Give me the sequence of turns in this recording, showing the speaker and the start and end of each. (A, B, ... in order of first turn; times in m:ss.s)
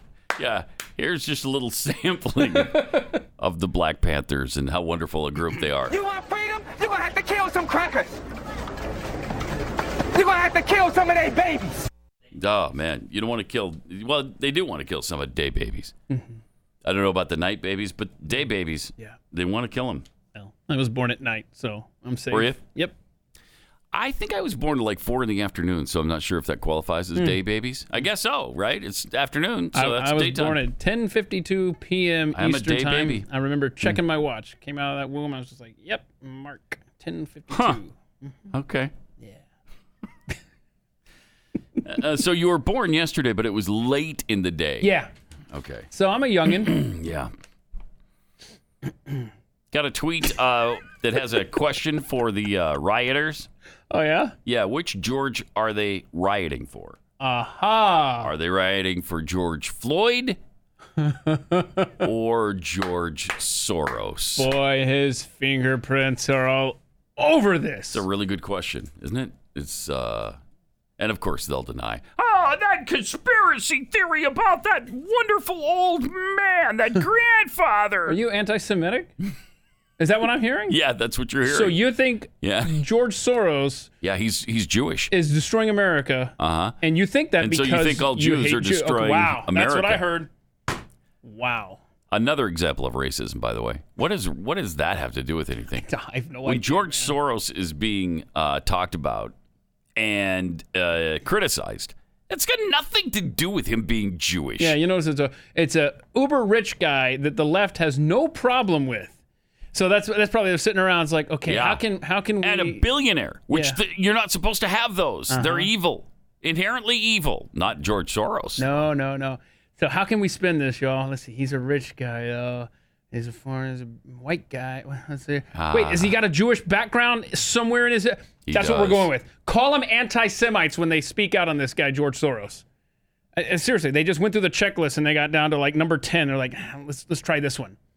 0:00.4-0:06.0 A
0:02.7-0:03.1 B
0:05.9-0:08.2 C
0:10.1-0:11.8 C
0:12.3-0:15.9 A
0:16.1-0:16.4 B
0:16.8-0:20.1 A
0:20.3-0:23.0 B
0:22.3-0:22.6 A
0:23.9-0:30.6 A
0:29.7-0:38.5 B
0:32.3-0:33.2 A
0:37.5-0:37.8 A
0:38.5-0:38.9 A
0:41.8-0:44.9 A
0:44.8-0:45.1 B
0:45.5-0:45.9 A
0:45.9-0:46.8 B
0:46.5-0:47.3 A
0:49.7-0:53.5 A
0:53.9-0:54.4 B
0:54.4-0:57.0 A
0:57.2-0:58.3 B
0:58.2-1:00.4 A
1:01.0-1:01.9 B
1:02.0-1:04.5 A
1:04.4-1:08.0 B
1:07.9-1:10.4 A
1:11.0-1:18.2 A
1:18.1-1:19.1 B
1:20.0-1:20.8 B
1:20.7-1:21.8 A
1:21.4-1:23.9 B
1:22.4-1:22.8 A
1:24.0-1:25.1 A
1:25.1-1:30.3 B
1:26.4-1:26.8 A
1:27.4-1:30.0 A
1:31.2-1:31.8 B
1:32.1-1:35.9 A
1:35.8-1:37.2 B
1:36.4-1:39.4 A
1:40.0-1:44.8 A
1:44.6-1:49.2 B
1:49.7-1:52.8 B
1:51.5-1:51.8 A
1:52.4-1:58.9 A
1:53.5-1:53.8 B
1:55.3-1:55.7 B
1:58.6-2:12.6 B
2:05.5-2:06.2 A
2:08.5-2:09.1 A
2:13.4-2:17.8 B